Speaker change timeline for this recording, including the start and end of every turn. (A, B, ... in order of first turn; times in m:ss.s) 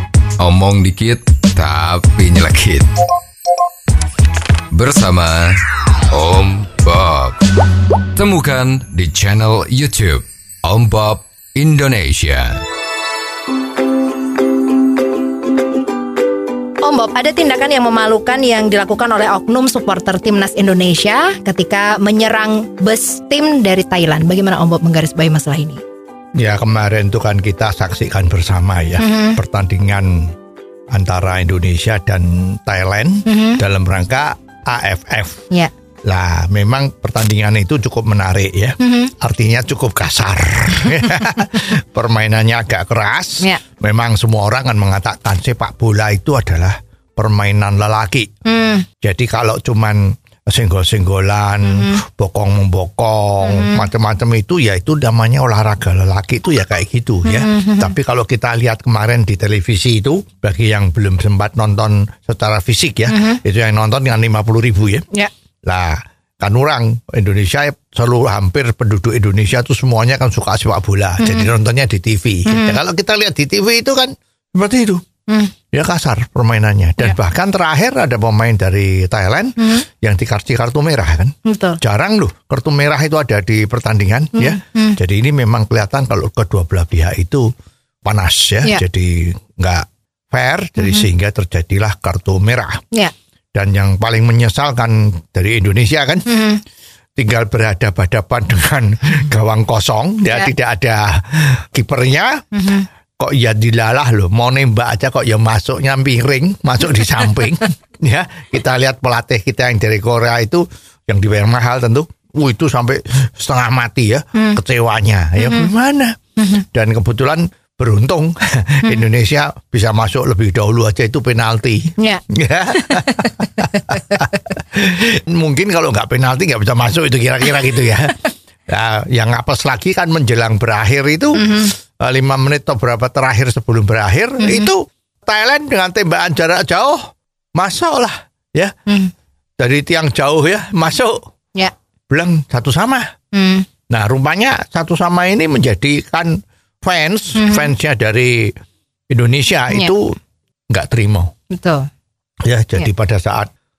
0:00.4-0:02.9 A
0:04.7-0:05.6 A
0:06.1-0:07.4 A
0:08.2-0:12.6 A
0:16.8-0:25.8 B
0:26.4-0:30.3 C
0:29.0-0:29.4 B
0:30.9-0:35.5 C
0:33.3-0:33.6 B
0:36.0-0:48.3 C
0:38.8-0:39.1 B
0:48.5-0:48.9 B
0:49.0-1:05.1 C
0:51.6-0:52.0 B
0:53.4-0:53.9 B
0:57.2-0:58.0 B
1:03.1-1:03.4 B
1:05.6-1:15.0 C
1:11.2-1:11.5 B
1:12.5-1:12.8 B
1:15.3-1:15.5 B
1:15.7-1:27.5 C
1:21.5-1:21.8 B
1:24.4-1:25.0 B
1:28.0-1:32.8 C
1:30.8-1:31.1 B
1:33.5-1:36.3 C
1:36.3-1:36.6 B
1:37.2-1:42.4 C
1:42.5-1:42.9 B
1:43.2-2:18.7 C
1:54.4-1:54.6 B
1:55.4-1:55.7 B
1:56.4-1:56.6 B
2:02.0-2:04.2 B
2:11.4-2:11.7 B
2:14.4-2:14.7 B
2:18.9-2:19.1 B
2:19.6-2:21.2 C
2:22.1-2:23.1 C
2:23.3-2:23.7 B
2:23.9-2:28.5 C
2:27.4-2:27.7 B
2:29.1-2:30.2 C
2:30.7-2:31.3 C
2:31.5-2:31.9 B
2:32.4-2:33.5 C